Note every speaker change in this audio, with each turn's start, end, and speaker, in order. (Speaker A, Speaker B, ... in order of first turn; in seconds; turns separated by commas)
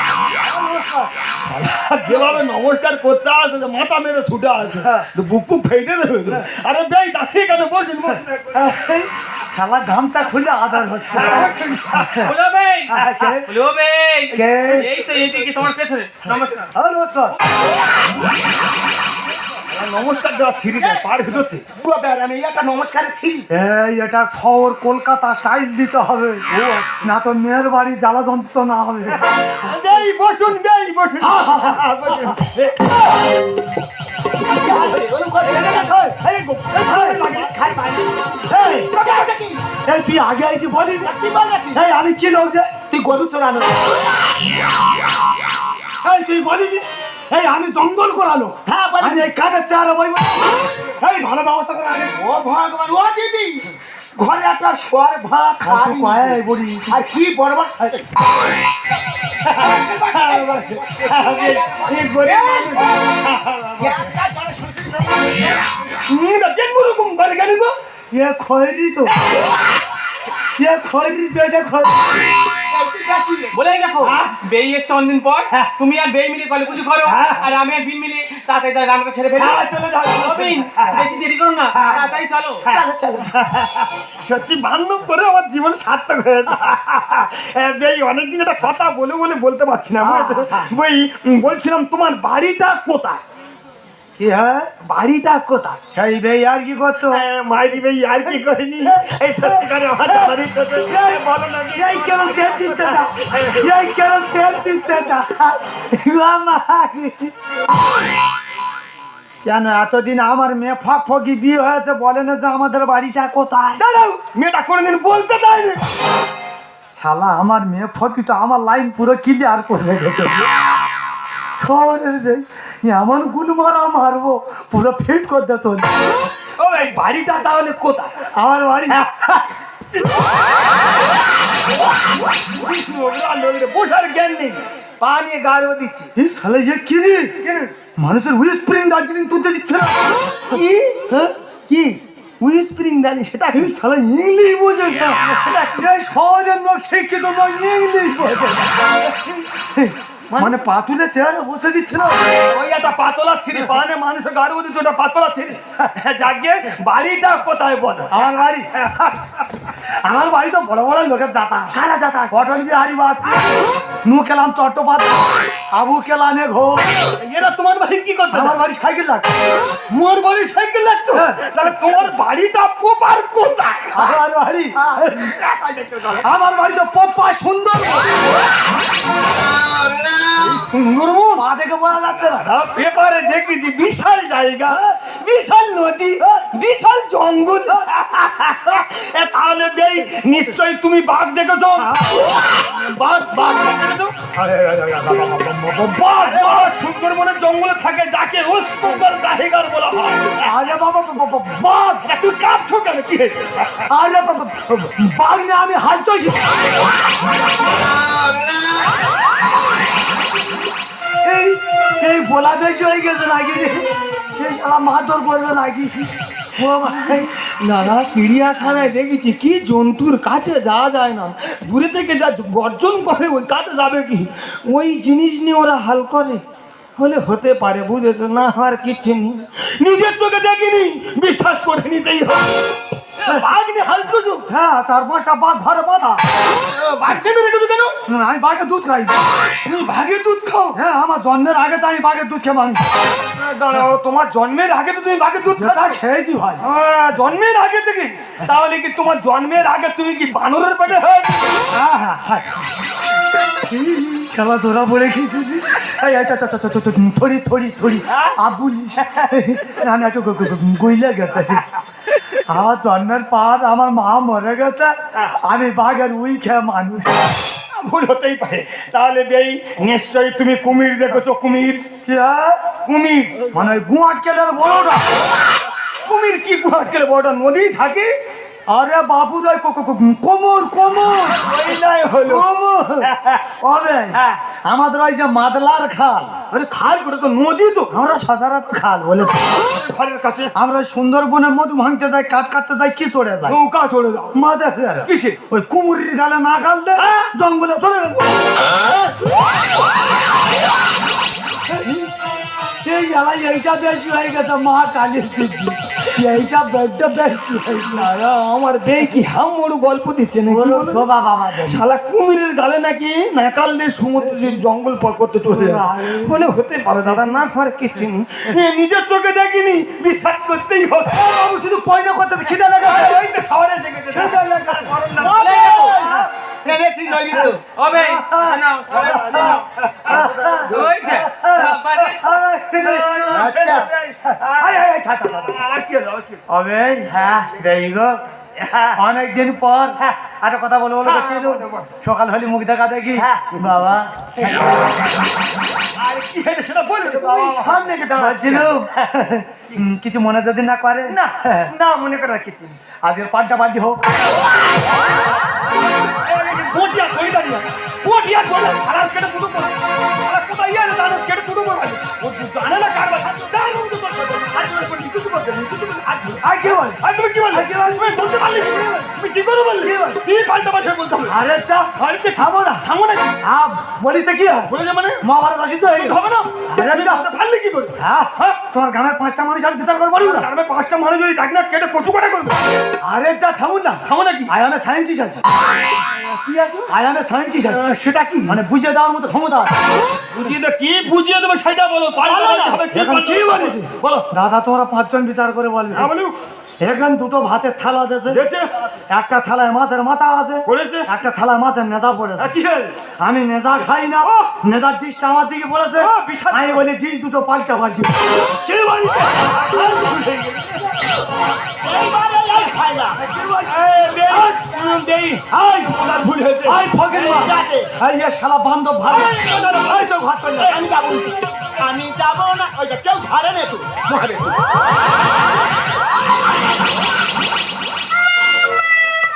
Speaker A: 0.5-1.1, Speaker B: 1.4-8.9, Speaker A: 4.8-5.1, Speaker A: 8.5-12.3, Speaker B: 11.1-12.3, Speaker C: 12.2-12.9, Speaker A: 12.9-13.5, Speaker C: 13.5-16.7, Speaker A: 14.3-14.9, Speaker A: 16.8-17.4, Speaker B: 19.7-21.7, Speaker D: 20.8-21.0, Speaker D: 21.7-23.5, Speaker A: 23.5-26.4, Speaker B: 26.5-27.1, Speaker A: 27.0-29.3, Speaker B: 29.6-32.8, Speaker A: 31.2-32.4, Speaker D: 34.4-36.0, Speaker B: 35.4-37.6, Speaker A: 35.6-36.1, Speaker A: 36.8-37.3, Speaker D: 37.2-38.2, Speaker A: 38.5-38.9, Speaker D: 38.7-39.6, Speaker A: 39.9-41.2, Speaker D: 41.0-41.8, Speaker A: 41.7-42.7, Speaker D: 42.9-43.9, Speaker A: 46.0-50.6, Speaker D: 48.7-49.3, Speaker B: 51.0-52.1, Speaker D: 52.1-58.1, Speaker A: 55.6-57.0, Speaker D: 59.5-63.0, Speaker B: 59.5-64.1, Speaker D: 63.8-65.5, Speaker B: 66.1-67.7, Speaker A: 68.1-69.1, Speaker A: 70.6-72.1, Speaker D: 72.7-73.5, Speaker C: 73.5-79.6, Speaker B: 77.1-77.4, Speaker B: 79.4-81.1, Speaker C: 80.1-82.6, Speaker B: 82.7-93.2, Speaker D: 82.7-83.3, Speaker A: 90.0-90.7, Speaker A: 94.2-94.7, Speaker B: 94.9-95.8, Speaker A: 95.8-97.2, Speaker B: 97.1-103.8, Speaker A: 98.3-107.3, Speaker A: 109.4-113.9, Speaker B: 113.8-115.8, Speaker A: 117.0-120.5, Speaker A: 121.6-126.0, Speaker B: 126.6-128.1, Speaker A: 128.4-129.0, Speaker B: 128.9-129.3, Speaker B: 129.9-130.2, Speaker B: 132.5-136.1, Speaker A: 136.2-137.3, Speaker B: 137.4-137.7, Speaker A: 138.0-140.2, Speaker B: 140.5-141.1, Speaker A: 141.1-141.3, Speaker B: 141.7-143.7, Speaker A: 143.5-152.3, Speaker B: 145.3-145.7, Speaker B: 152.3-158.3, Speaker A: 158.1-158.7, Speaker B: 159.0-159.4, Speaker A: 160.0-166.9, Speaker B: 167.1-168.6, Speaker A: 168.3-169.3, Speaker B: 169.9-174.2, Speaker A: 171.1-171.6, Speaker A: 173.9-175.3, Speaker B: 175.0-176.3, Speaker A: 176.2-178.2, Speaker B: 180.3-181.4, Speaker A: 181.3-182.5, Speaker B: 182.3-200.7, Speaker A: 191.9-192.2, Speaker A: 195.5-196.7, Speaker A: 200.4-202.1, Speaker B: 202.1-203.9, Speaker A: 203.9-206.5, Speaker A: 211.2-217.3, Speaker B: 216.9-226.4, Speaker B: 227.0-234.5, Speaker A: 234.5-236.2, Speaker B: 236.5-237.9, Speaker A: 238.1-239.2, Speaker B: 239.6-240.8, Speaker A: 240.7-242.8, Speaker B: 243.3-246.0, Speaker A: 245.5-246.6, Speaker B: 246.6-251.7, Speaker A: 251.7-252.5, Speaker A: 253.7-261.6, Speaker A: 262.5-267.2, Speaker B: 267.7-271.9, Speaker A: 272.1-272.7, Speaker B: 272.9-273.4, Speaker A: 273.5-275.1, Speaker B: 276.0-278.1, Speaker A: 278.7-281.5, Speaker B: 281.3-282.5, Speaker A: 282.3-283.1, Speaker B: 283.0-283.5, Speaker A: 283.6-286.3, Speaker B: 286.5-287.9, Speaker A: 287.9-289.5, Speaker B: 289.5-290.5, Speaker A: 290.6-293.6, Speaker B: 293.5-294.3, Speaker A: 294.3-298.3, Speaker B: 295.1-295.4, Speaker A: 301.7-302.1, Speaker A: 302.9-308.1, Speaker B: 307.9-321.4, Speaker A: 310.5-311.8, Speaker A: 314.2-314.6, Speaker A: 315.5-316.5, Speaker A: 321.1-323.2, Speaker B: 322.8-326.3, Speaker A: 324.1-325.2, Speaker D: 325.2-327.6, Speaker C: 325.3-325.9, Speaker A: 325.8-326.3, Speaker A: 327.3-333.5, Speaker C: 327.8-329.6, Speaker B: 328.9-330.4, Speaker D: 330.1-331.0, Speaker C: 330.7-332.2, Speaker B: 332.8-334.8, Speaker D: 333.3-333.9, Speaker A: 334.5-335.6, Speaker B: 335.4-336.4, Speaker A: 336.5-338.2, Speaker B: 338.6-339.0, Speaker A: 339.0-344.7, Speaker B: 341.0-341.9, Speaker B: 343.2-343.8, Speaker B: 346.0-348.3, Speaker D: 347.2-348.7, Speaker A: 348.1-351.7, Speaker B: 351.1-352.8, Speaker A: 353.0-354.1, Speaker B: 356.2-366.4, Speaker A: 366.4-367.0, Speaker B: 367.0-371.4, Speaker A: 367.5-369.1, Speaker A: 369.8-370.2, Speaker A: 371.3-372.8, Speaker B: 372.0-373.4, Speaker A: 373.4-376.2, Speaker B: 374.7-375.2, Speaker B: 375.9-378.0, Speaker A: 376.7-377.2, Speaker A: 378.0-380.5, Speaker B: 380.2-382.6, Speaker A: 383.0-385.4, Speaker B: 384.1-384.5, Speaker B: 386.2-386.9, Speaker A: 386.9-387.9, Speaker B: 387.6-388.6, Speaker A: 388.5-389.7, Speaker B: 390.3-394.3, Speaker A: 392.3-396.1, Speaker B: 395.9-396.4, Speaker A: 396.8-398.4, Speaker B: 398.3-398.7, Speaker A: 399.1-402.5, Speaker B: 400.7-401.1, Speaker B: 402.4-403.0, Speaker A: 403.2-410.6, Speaker B: 404.2-404.6, Speaker B: 406.0-406.8, Speaker B: 409.4-410.8, Speaker D: 411.8-413.2, Speaker A: 413.1-414.7, Speaker B: 413.7-417.5, Speaker A: 415.5-415.9, Speaker A: 416.6-420.8, Speaker D: 417.3-417.9, Speaker B: 419.1-420.8, Speaker D: 420.7-424.6